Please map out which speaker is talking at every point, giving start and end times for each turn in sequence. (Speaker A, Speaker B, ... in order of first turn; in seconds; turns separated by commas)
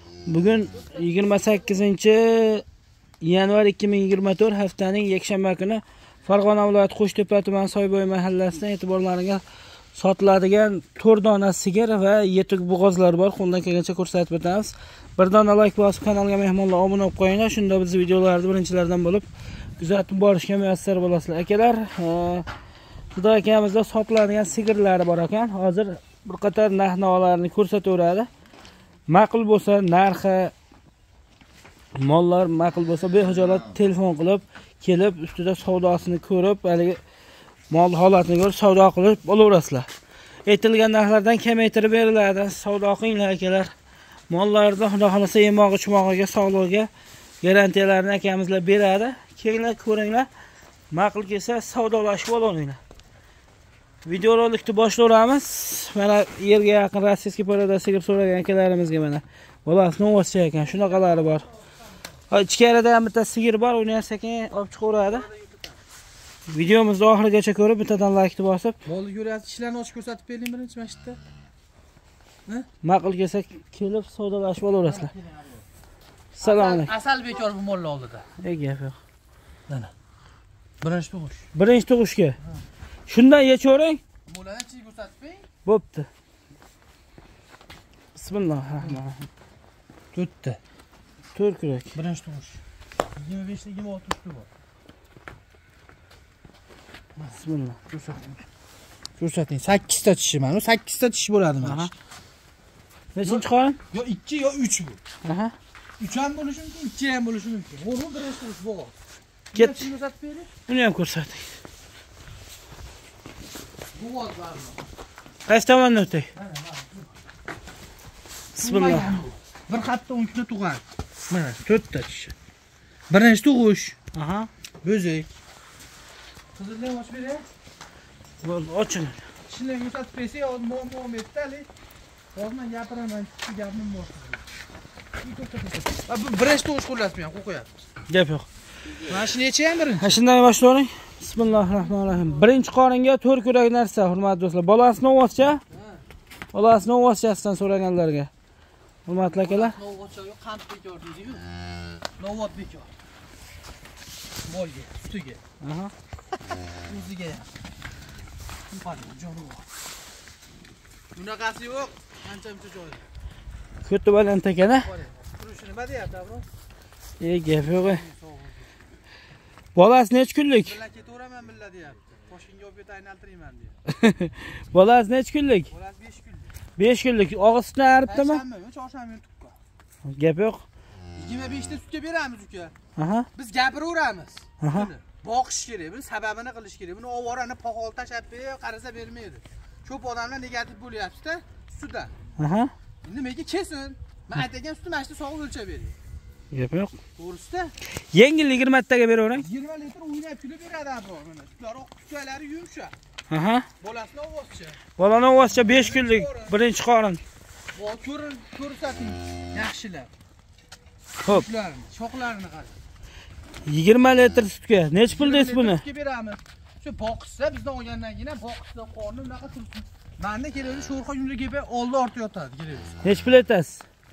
Speaker A: 0.3-2.6, Speaker B: 0.8-1.6, Speaker A: 3.2-9.4, Speaker A: 9.9-19.3, Speaker A: 19.8-22.5, Speaker A: 23.2-28.3, Speaker A: 29.1-30.5, Speaker A: 31.9-37.0, Speaker A: 37.7-39.9, Speaker A: 40.5-43.7, Speaker A: 44.3-46.9, Speaker A: 47.4-50.3, Speaker A: 50.9-52.8, Speaker A: 54.0-61.5, Speaker B: 60.6-62.1, Speaker A: 62.3-65.3, Speaker B: 65.0-65.8, Speaker A: 66.5-68.8, Speaker B: 68.9-71.2, Speaker A: 72.8-75.1, Speaker B: 74.9-75.5, Speaker A: 76.4-76.9, Speaker B: 76.4-78.3, Speaker A: 78.4-79.0, Speaker B: 80.8-81.5, Speaker A: 81.5-82.4, Speaker A: 83.1-84.0, Speaker B: 84.3-85.5, Speaker A: 85.7-86.1, Speaker A: 88.2-89.3, Speaker B: 90.1-90.6, Speaker A: 91.3-91.9, Speaker B: 91.9-92.6, Speaker B: 93.2-94.5, Speaker A: 97.4-97.8, Speaker B: 97.9-98.4, Speaker B: 99.2-101.9, Speaker A: 101.6-101.9, Speaker A: 103.2-103.8, Speaker B: 103.2-105.0, Speaker A: 105.2-105.5, Speaker B: 106.0-108.9, Speaker B: 109.5-110.5, Speaker A: 109.5-109.9, Speaker A: 110.7-111.5, Speaker B: 113.9-114.8, Speaker A: 115.5-116.3, Speaker B: 116.3-117.1, Speaker A: 118.6-119.2, Speaker B: 118.6-121.6, Speaker A: 121.6-122.3, Speaker B: 123.1-124.0, Speaker A: 124.1-124.5, Speaker B: 124.8-125.3, Speaker B: 126.5-127.5, Speaker A: 128.4-129.2, Speaker B: 129.5-131.7, Speaker B: 132.3-134.4, Speaker B: 135.2-137.7, Speaker A: 138.1-138.5, Speaker B: 139.0-140.2, Speaker A: 140.0-145.6, Speaker B: 141.6-142.5, Speaker B: 145.7-146.0, Speaker A: 146.5-148.3, Speaker A: 149.1-149.8, Speaker B: 149.2-151.4, Speaker B: 152.2-152.9, Speaker B: 154.4-155.4, Speaker A: 155.6-155.9, Speaker B: 156.9-157.5, Speaker B: 158.7-159.6, Speaker B: 161.2-163.1, Speaker A: 163.8-164.9, Speaker B: 164.8-166.5, Speaker A: 167.2-168.0, Speaker B: 167.8-168.7, Speaker A: 169.8-170.8, Speaker B: 170.6-173.8, Speaker A: 173.9-175.7, Speaker B: 175.7-176.5, Speaker A: 176.8-178.4, Speaker B: 178.1-179.6, Speaker A: 180.1-180.6, Speaker B: 181.2-182.7, Speaker A: 183.0-183.3, Speaker B: 183.3-192.1, Speaker A: 184.6-184.9, Speaker A: 192.4-192.7, Speaker B: 193.0-196.0, Speaker A: 196.5-196.9, Speaker B: 197.2-197.7, Speaker A: 198.1-199.5, Speaker B: 199.4-202.9, Speaker A: 203.3-203.7, Speaker B: 203.8-204.8, Speaker A: 205.0-207.2, Speaker B: 205.6-206.6, Speaker B: 207.7-210.1, Speaker B: 211.2-212.8, Speaker A: 213.7-215.8, Speaker B: 215.1-223.0, Speaker A: 223.0-223.8